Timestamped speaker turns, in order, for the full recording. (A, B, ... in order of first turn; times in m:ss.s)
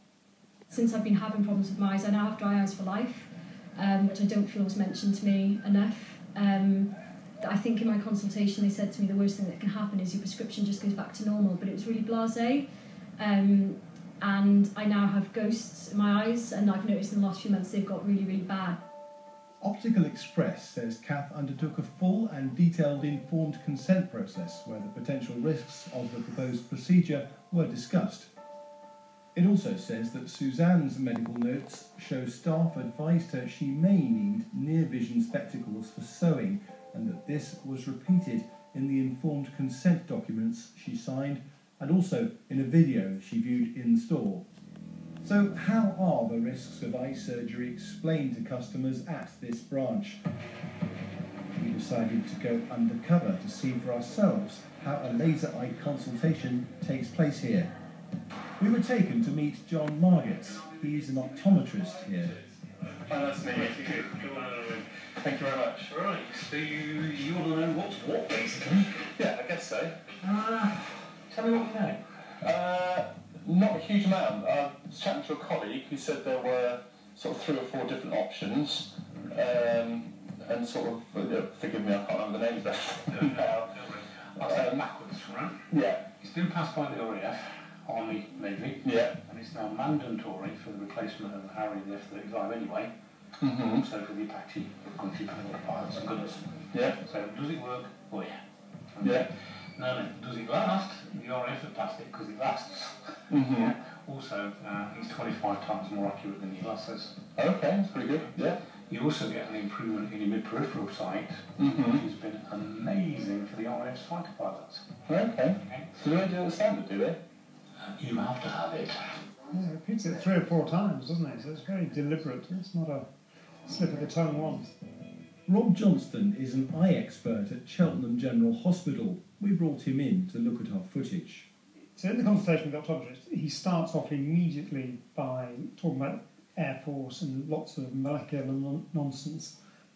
0:00.7-0:06.9 A
0:07.4-0:12.6 A
0:13.2-0:18.8 A
0:19.6-0:28.3 B
0:29.3-0:44.4 B
0:45.2-0:50.2 B
0:51.6-0:57.7 B
0:58.6-1:02.3 B
1:03.0-1:04.2 C
1:03.4-1:04.9 D
1:05.2-1:06.0 C
1:05.8-1:09.1 D
1:08.7-1:10.0 C
1:10.2-1:12.0 D
1:12.4-1:23.7 C
1:23.1-1:25.6 D
1:24.4-1:24.8 C
1:25.7-1:26.0 C
1:26.2-1:32.9 D
1:28.8-1:29.2 C
1:33.4-1:33.8 C
1:33.7-1:38.4 D
1:38.9-1:47.2 D
1:39.0-1:39.3 C
1:43.3-1:43.7 C
1:47.4-1:48.6 C
1:47.9-1:48.4 D
1:48.9-1:54.9 D
1:51.6-1:52.0 C
1:55.1-1:57.2 C
1:57.8-1:59.2 D
1:59.5-2:03.0 E
2:03.6-2:04.7 E
2:05.5-2:11.4 B
2:12.0-2:19.5 E